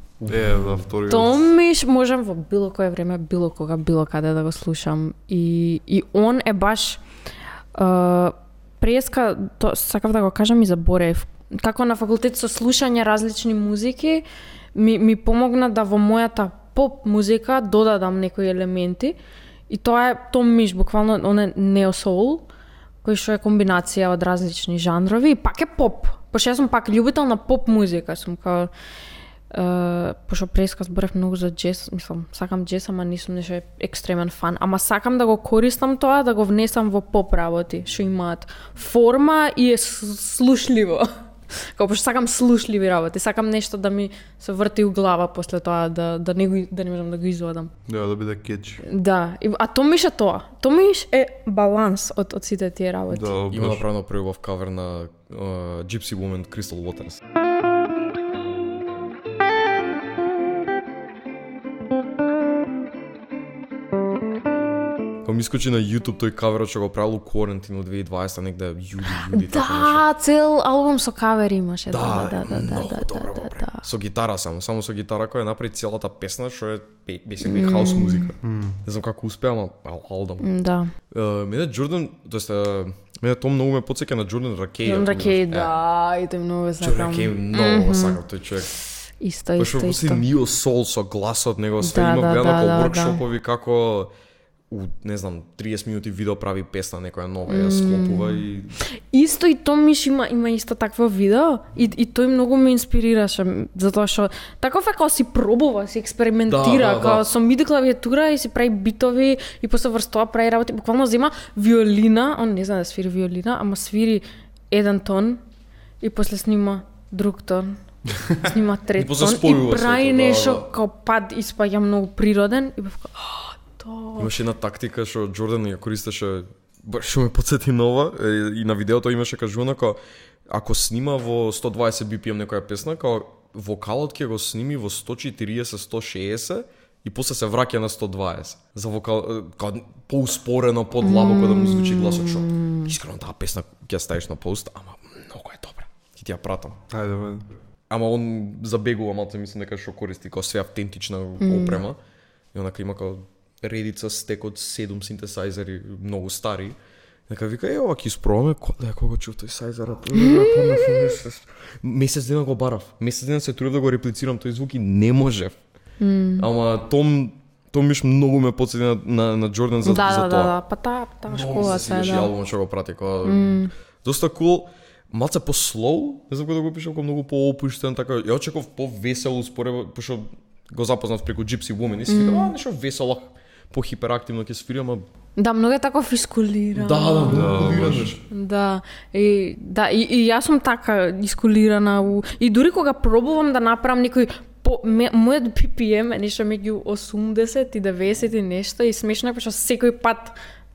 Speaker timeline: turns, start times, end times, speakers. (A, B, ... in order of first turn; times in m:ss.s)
0:00.2-0:00.8 A
0:00.3-0:01.4 B
0:01.1-0:07.0 C
0:07.8-0:19.2 C
0:19.7-0:22.5 C
0:23.0-0:28.7 C
0:29.5-0:47.7 C
0:47.9-0:48.8 B
0:48.8-0:53.3 C
0:53.1-0:53.8 B
0:53.5-0:57.2 A
1:05.2-1:10.0 A
1:09.3-1:13.8 C
1:11.9-1:20.5 A
1:17.4-1:18.3 C
1:18.4-1:18.8 B
1:20.4-1:20.9 C
1:21.1-1:25.7 A
1:24.8-1:28.2 C
1:26.8-1:28.7 A
1:29.2-1:30.2 C
1:29.6-1:34.1 A
1:31.8-1:33.2 C
1:34.7-1:38.8 A
1:37.5-1:38.4 C
1:39.1-1:55.4 C
1:46.5-1:47.3 A
1:56.0-1:57.8 C
1:58.3-2:04.3 C
1:59.0-2:00.6 A
2:04.2-2:26.8 A
2:21.0-2:22.9 C
2:26.9-2:27.5 B
2:27.9-2:32.0 A
2:31.4-2:31.8 C
2:32.5-2:36.8 A
2:37.3-2:45.6 A
2:40.2-2:41.0 C
2:46.0-2:46.5 C
2:46.4-2:50.5 A
2:49.8-2:52.3 C
2:51.3-2:53.5 A
2:53.2-2:53.7 C
2:54.0-3:05.1 A
3:02.1-3:02.5 C
3:05.4-3:07.7 C
3:06.8-3:08.2 A
3:07.3-3:08.2 B
3:08.3-3:20.4 C